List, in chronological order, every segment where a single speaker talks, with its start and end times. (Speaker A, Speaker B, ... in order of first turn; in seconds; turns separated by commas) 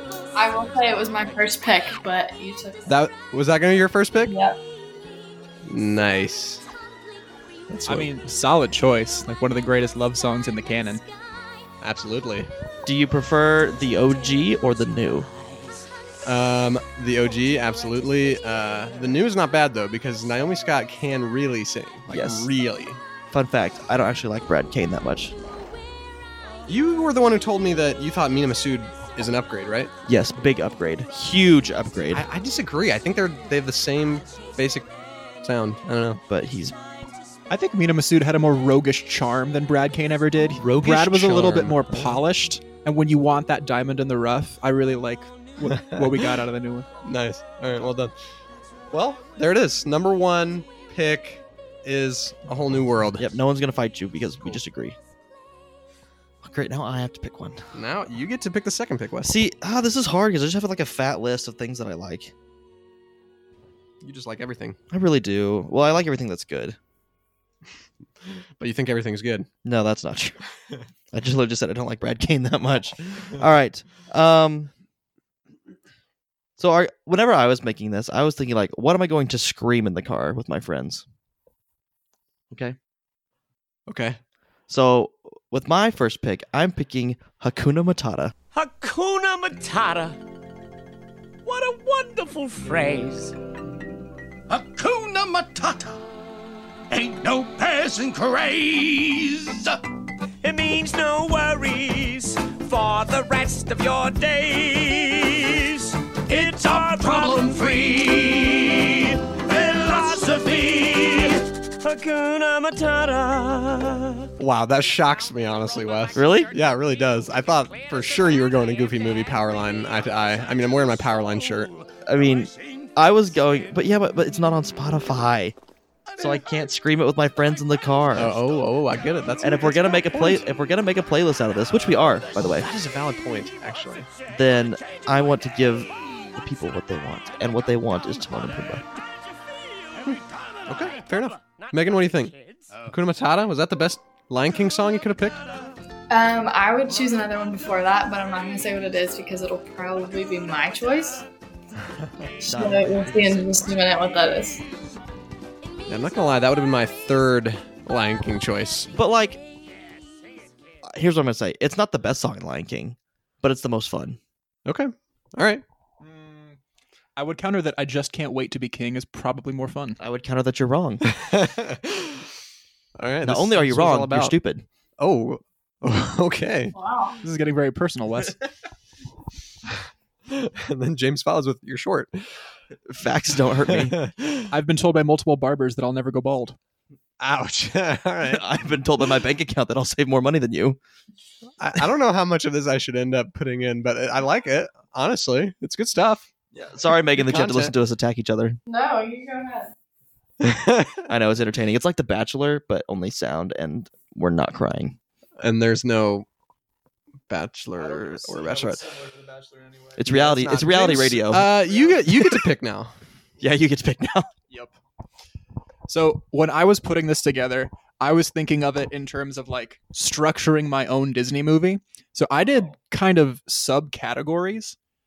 Speaker A: 0.3-2.9, Speaker B: 2.9-4.3, Speaker A: 4.3-4.6, Speaker B: 5.6-6.6, Speaker B: 7.7-8.1, Speaker C: 7.9-11.0, Speaker B: 11.8-12.5, Speaker D: 12.8-15.3, Speaker B: 16.2-23.0, Speaker D: 22.1-22.5, Speaker D: 23.3-25.4, Speaker B: 26.7-29.9, Speaker D: 30.1-32.2, Speaker B: 32.1-34.9, Speaker B: 35.4-36.2, Speaker D: 36.3-36.8, Speaker C: 37.5-46.9, Speaker B: 40.6-42.1, Speaker B: 45.7-46.1, Speaker B: 47.0-48.1, Speaker B: 48.9-53.3, Speaker D: 53.2-55.0, Speaker D: 56.4-57.6, Speaker B: 57.7-59.3, Speaker D: 59.2-62.3, Speaker B: 64.0-64.8, Speaker D: 64.9-66.8, Speaker B: 68.6-69.5, Speaker D: 69.6-70.4, Speaker D: 71.1-74.7, Speaker D: 76.6-81.0, Speaker B: 83.9-84.2, Speaker D: 84.7-88.3, Speaker E: 88.5-90.2, Speaker E: 91.5-93.3, Speaker E: 94.5-95.9, Speaker E: 96.9-99.8, Speaker E: 100.4-114.2, Speaker B: 114.4-121.7, Speaker D: 116.1-116.5, Speaker D: 122.0-125.5, Speaker D: 126.2-128.4, Speaker B: 128.1-130.4, Speaker D: 129.4-132.7, Speaker B: 132.5-134.1, Speaker D: 134.3-138.8, Speaker B: 140.1-142.3, Speaker B: 142.9-145.4, Speaker A: 146.1-151.2, Speaker D: 152.4-153.7, Speaker A: 152.4-154.6, Speaker B: 155.9-158.9, Speaker D: 158.9-159.4, Speaker D: 160.8-164.2, Speaker B: 164.7-165.6, Speaker C: 166.0-166.6, Speaker C: 167.2-170.0, Speaker D: 170.0-171.0, Speaker B: 171.1-172.2, Speaker B: 173.0-174.3, Speaker D: 173.2-174.6, Speaker B: 175.0-176.7, Speaker A: 176.7-177.2, Speaker C: 177.2-178.3, Speaker B: 180.3-182.3, Speaker D: 182.9-183.9, Speaker B: 183.7-184.5, Speaker C: 184.5-186.6, Speaker B: 187.2-188.4, Speaker D: 188.2-190.8, Speaker B: 191.6-196.3, Speaker D: 196.5-198.6, Speaker B: 197.2-197.7, Speaker A: 198.7-199.7, Speaker B: 200.4-201.0, Speaker D: 201.1-205.0, Speaker B: 205.4-206.2, Speaker B: 207.3-208.8, Speaker C: 207.8-210.0, Speaker D: 210.0-211.5, Speaker B: 210.0-212.9, Speaker C: 211.6-212.0, Speaker D: 212.1-212.4, Speaker D: 213.4-214.3, Speaker C: 215.9-224.8